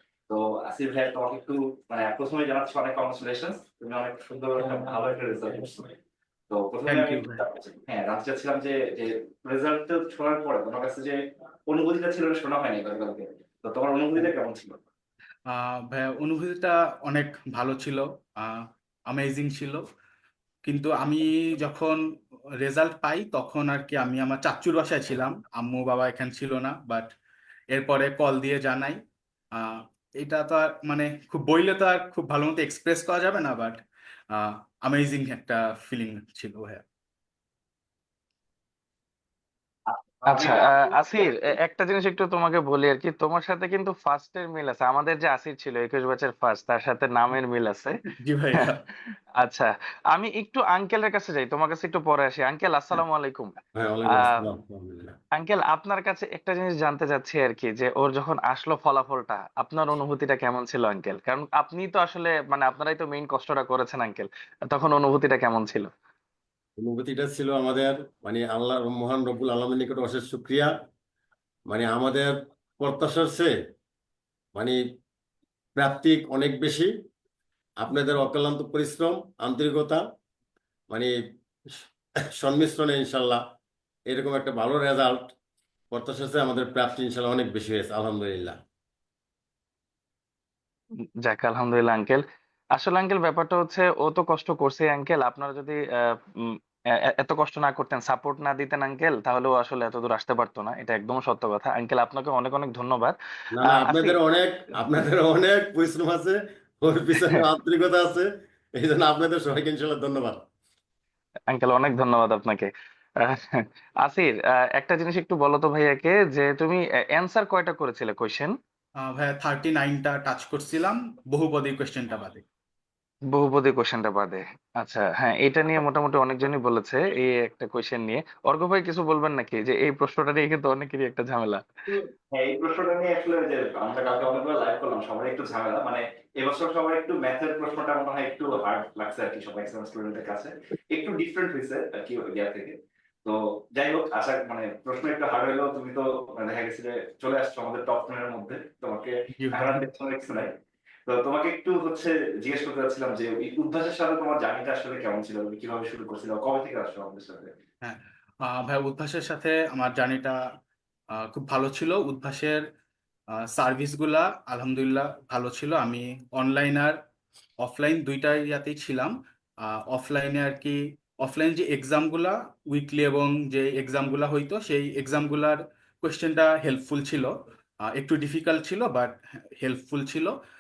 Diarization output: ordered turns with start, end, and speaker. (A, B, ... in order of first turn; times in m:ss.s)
0:00.3-0:05.9 A
0:06.5-0:14.8 A
0:06.9-0:07.4 B
0:15.5-0:19.8 B
0:20.6-0:22.0 B
0:22.6-0:27.2 B
0:27.7-0:29.0 B
0:29.6-0:36.8 B
0:39.9-0:41.5 A
0:40.3-0:48.0 C
0:48.2-0:48.8 B
0:49.4-0:53.6 C
0:53.8-0:55.2 D
0:55.4-1:05.9 C
1:06.8-1:10.7 D
1:11.7-1:13.5 D
1:15.8-1:16.9 D
1:17.8-1:20.0 D
1:22.4-1:23.4 D
1:24.1-1:25.4 D
1:25.9-1:28.6 D
1:31.3-1:32.2 C
1:32.8-1:35.8 C
1:37.2-1:43.2 C
1:43.6-1:50.4 D
1:43.7-1:44.2 C
1:51.5-1:52.7 C
1:53.2-1:58.6 C
1:59.0-2:02.4 B
2:03.3-2:11.6 C
2:11.9-2:30.5 A
2:29.4-2:29.9 B
2:31.1-2:37.5 A
2:37.8-2:40.4 B
2:41.1-2:42.6 B
2:43.3-2:47.0 B
2:47.6-2:57.3 B
2:57.8-3:00.4 B